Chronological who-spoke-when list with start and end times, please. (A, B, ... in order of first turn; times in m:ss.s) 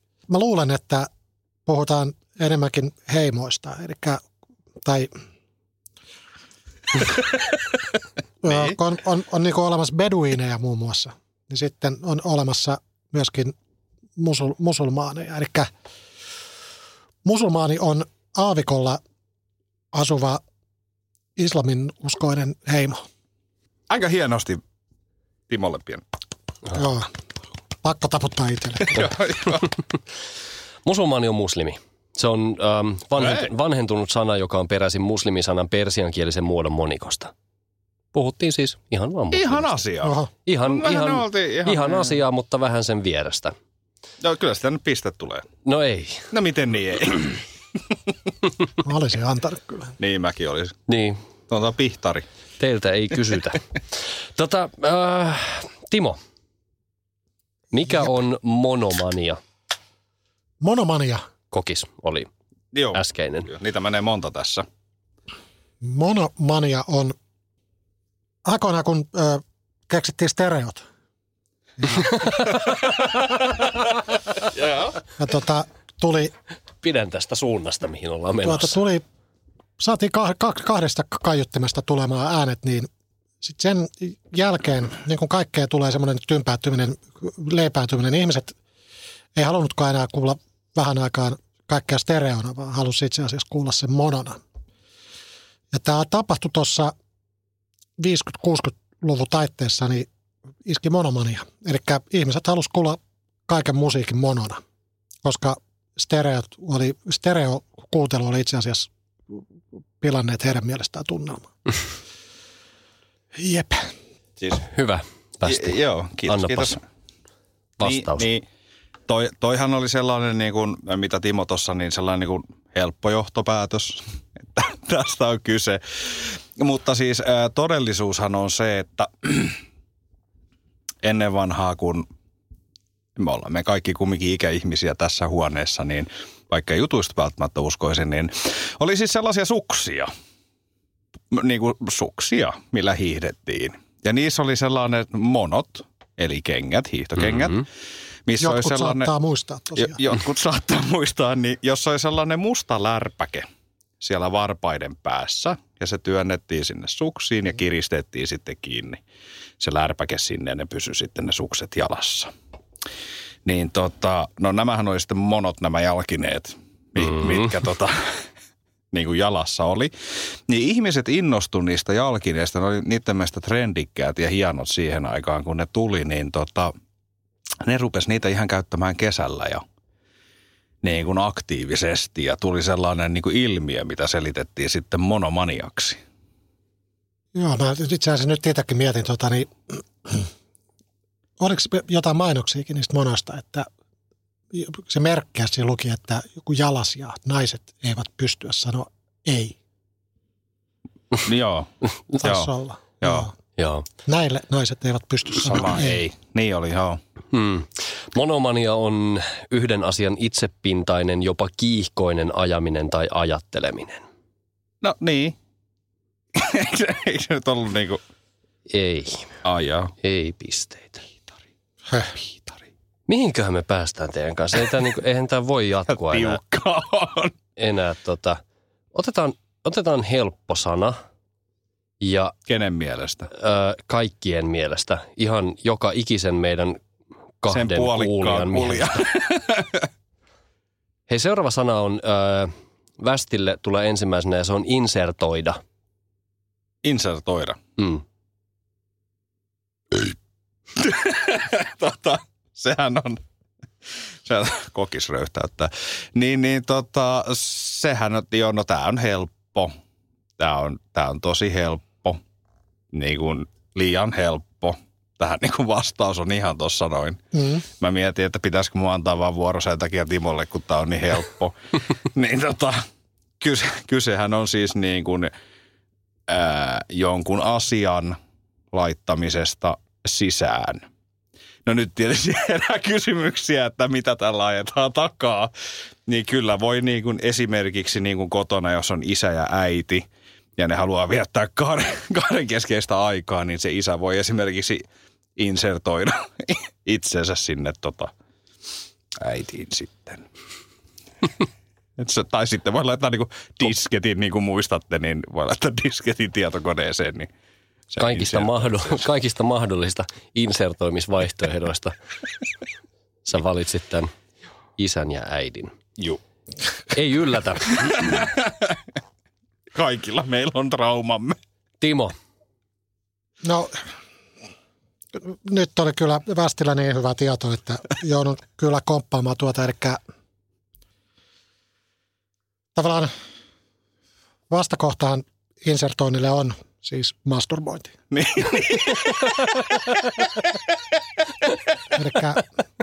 0:00.3-0:01.1 A
0:01.6-0:04.2 A
0:04.8-0:05.1 A
0:08.4-0:13.5 A
0:14.2-0:15.7 A
0:17.2-0:19.0 A
0:19.9-0:20.4 A
0:21.4-0:23.0 A
0:23.9-0:24.6 B
0:25.5-0:26.0 B
0:26.7-0:27.1 A
0:27.8-0:29.1 A
0:28.9-0:29.7 B
0:30.8-0:37.3 C
0:33.2-0:33.5 B
0:38.1-0:39.8 C
0:39.3-0:42.1 B
0:40.0-0:40.3 A
0:40.4-0:43.5 C
0:44.2-0:45.5 B
0:45.6-0:46.3 C
0:46.3-0:47.4 B
0:48.8-0:49.9 A
0:50.0-0:50.8 B
0:50.9-0:51.2 C
0:51.5-0:52.2 B
0:52.6-0:53.6 C
0:54.4-0:56.2 C
0:57.7-0:59.4 C
1:00.6-1:01.2 A
1:01.5-1:02.3 C
1:02.7-1:04.6 B
1:02.9-1:03.5 C
1:05.8-1:07.1 A
1:08.4-1:10.8 A
1:11.9-1:12.2 A
1:14.5-1:15.0 B
1:15.2-1:16.3 A
1:16.8-1:18.8 C
1:18.4-1:19.0 A
1:19.8-1:22.9 A
1:23.4-1:28.5 A
1:29.3-1:34.4 A
1:35.7-1:36.9 A
1:38.0-1:40.1 A
1:40.6-1:44.6 A
1:45.2-1:49.4 A
1:50.0-1:51.5 A
1:53.4-1:53.9 A
1:54.4-1:54.7 B
1:54.7-1:55.8 C
1:55.4-1:56.8 B
1:56.3-1:56.8 C
1:57.8-1:58.3 C
1:57.8-1:58.4 B
1:59.1-2:09.6 B
2:11.0-2:12.0 B
2:13.2-2:20.1 B
2:21.3-2:27.6 B
2:28.2-2:29.1 B
2:28.4-2:30.0 A
2:29.8-2:33.4 B
2:34.0-2:39.0 B
2:39.6-2:42.3 B
2:43.4-2:48.2 B
2:47.2-2:47.4 C
2:48.9-2:49.9 B
2:50.5-2:56.7 B
2:57.6-2:59.6 B
3:00.8-3:06.0 B
3:07.3-3:10.3 A
3:11.4-3:13.7 A
3:14.5-3:19.6 A
3:21.2-3:23.3 B
3:22.2-3:23.3 A
3:23.6-3:23.8 C
3:24.0-3:26.0 A
3:25.4-3:27.0 B
3:27.3-3:34.0 C
3:34.8-3:35.4 B
3:36.4-3:38.0 B
3:38.7-3:39.3 C
3:39.4-3:39.9 B
3:40.0-3:41.1 C
3:42.1-3:42.7 B
3:43.1-3:46.4 C
3:45.9-3:47.3 B
3:47.6-3:48.4 C
3:48.9-3:50.9 C
3:52.0-3:52.3 C
3:52.5-3:53.3 B
3:53.3-3:56.8 C
3:57.4-3:59.0 C
3:57.5-3:59.9 B
4:01.1-4:05.6 C
4:06.8-4:07.6 B
4:10.8-4:13.2 B
4:14.2-4:19.7 B
4:20.4-4:22.2 B
4:22.9-4:27.2 B
4:27.3-4:27.6 A
4:27.8-4:31.5 B
4:32.0-4:32.8 B
4:33.4-4:35.3 B
4:36.3-4:38.2 B
4:38.7-4:40.8 B
4:41.6-4:45.5 B
4:46.1-4:50.0 B
4:50.6-4:54.8 B
4:55.4-4:58.1 B
4:59.2-5:00.2 B
5:02.0-5:07.3 B
5:07.9-5:09.0 B
5:08.0-5:11.9 C
5:13.2-5:14.1 C
5:14.8-5:15.7 C
5:16.9-5:18.1 C
5:18.0-5:18.7 B
5:19.7-5:21.4 B
5:21.8-5:22.1 C
5:23.4-5:23.7 A
5:25.2-5:30.0 A
5:32.7-5:33.1 A
5:34.5-5:37.9 A
5:38.1-5:40.2 B
5:41.9-5:42.4 A